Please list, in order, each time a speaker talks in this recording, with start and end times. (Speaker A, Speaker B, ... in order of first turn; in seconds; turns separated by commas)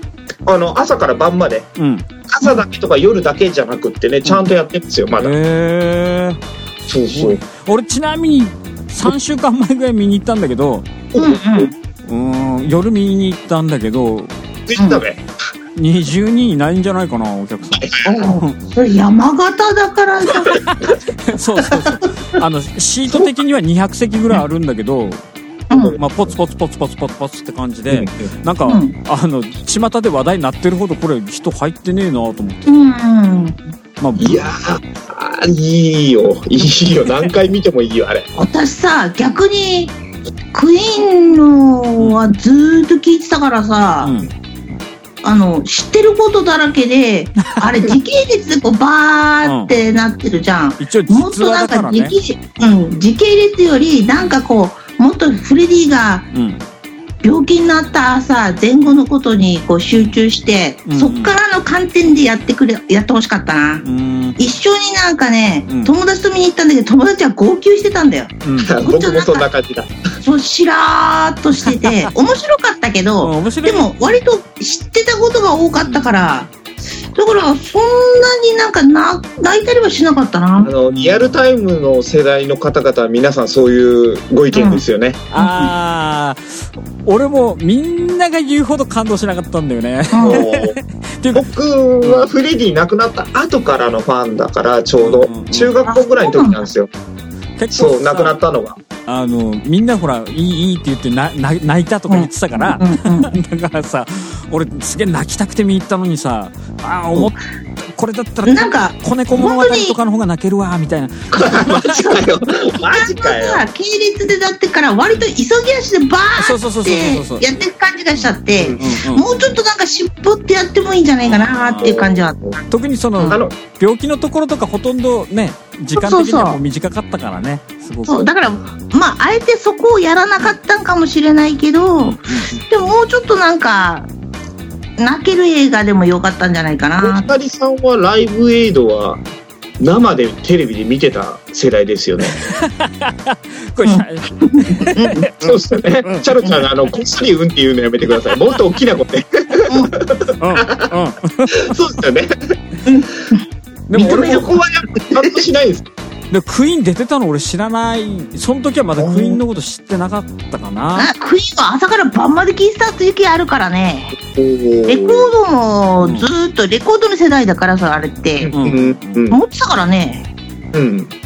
Speaker A: 0.5-1.7, Speaker B: 1.8-2.0, Speaker A: 2.3-5.3, Speaker B: 5.2-10.9, Speaker A: 6.9-7.4, Speaker A: 11.1-11.7, Speaker C: 11.2-11.7, Speaker B: 12.1-14.3, Speaker A: 14.7-15.2, Speaker C: 14.8-15.0, Speaker B: 15.8-18.6, Speaker A: 17.8-18.1, Speaker C: 18.0-20.6, Speaker A: 20.5-20.9, Speaker B: 20.6-25.2, Speaker C: 21.6-22.0, Speaker C: 25.7-26.0, Speaker A: 25.7-26.0, Speaker B: 25.9-32.7, Speaker A: 27.9-28.3, Speaker C: 28.6-28.9, Speaker C: 32.7-33.6, Speaker B: 34.0-34.4, Speaker A: 34.2-38.3, Speaker C: 38.4-40.0, Speaker C: 40.5-44.1, Speaker B: 44.0-44.3, Speaker C: 45.2-56.3, Speaker B: 47.4-47.7, Speaker B: 49.4-49.7, Speaker B: 50.8-52.1, Speaker B: 56.3-56.6, Speaker C: 57.2-63.9, Speaker B: 60.9-61.3, Speaker B: 63.8-64.4, Speaker C: 64.4-69.5, Speaker B: 68.4-68.7, Speaker A: 68.6-69.9, Speaker C: 70.2-76.5, Speaker B: 71.7-72.1, Speaker B: 73.2-74.2, Speaker B: 75.8-76.1, Speaker C: 77.2-80.7, Speaker A: 80.6-85.2, Speaker B: 80.9-81.3, Speaker C: 84.5-84.8, Speaker B: 85.3-91.4, Speaker C: 85.4-85.7, Speaker C: 90.1-90.4, Speaker A: 90.2-90.8, Speaker A: 91.3-96.9, Speaker B: 92.0-92.3, Speaker B: 95.0-95.8, Speaker C: 95.8-96.7, Speaker B: 97.6-98.4, Speaker A: 97.7-98.8, Speaker B: 99.1-112.0, Speaker C: 102.1-103.3, Speaker C: 108.5-110.0, Speaker A: 111.3-113.6, Speaker C: 111.7-112.2, Speaker C: 112.8-122.4, Speaker B: 116.4-117.5, Speaker B: 118.2-119.4, Speaker A: 118.5-119.5, Speaker B: 121.2-122.0, Speaker A: 121.8-122.6, Speaker B: 122.7-128.3, Speaker A: 123.2-123.6, Speaker C: 125.9-126.6, Speaker C: 128.1-134.1, Speaker B: 132.0-132.5, Speaker C: 135.0-137.3, Speaker A: 137.0-139.2, Speaker A: 139.8-142.5, Speaker B: 142.4-145.3, Speaker C: 143.8-145.6, Speaker A: 145.4-150.9, Speaker B: 146.0-146.5, Speaker C: 149.7-149.9, Speaker B: 150.4-151.7, Speaker A: 151.5-152.3, Speaker C: 152.9-153.4, Speaker B: 153.9-154.5, Speaker A: 153.9-155.8, Speaker C: 153.9-154.6, Speaker B: 156.3-161.1, Speaker A: 159.0-159.4, Speaker C: 161.0-164.2, Speaker A: 164.2-165.3, Speaker C: 164.9-168.5, Speaker B: 166.0-166.3, Speaker A: 168.4-169.4, Speaker B: 168.5-169.2, Speaker C: 169.3-170.3, Speaker A: 170.7-171.1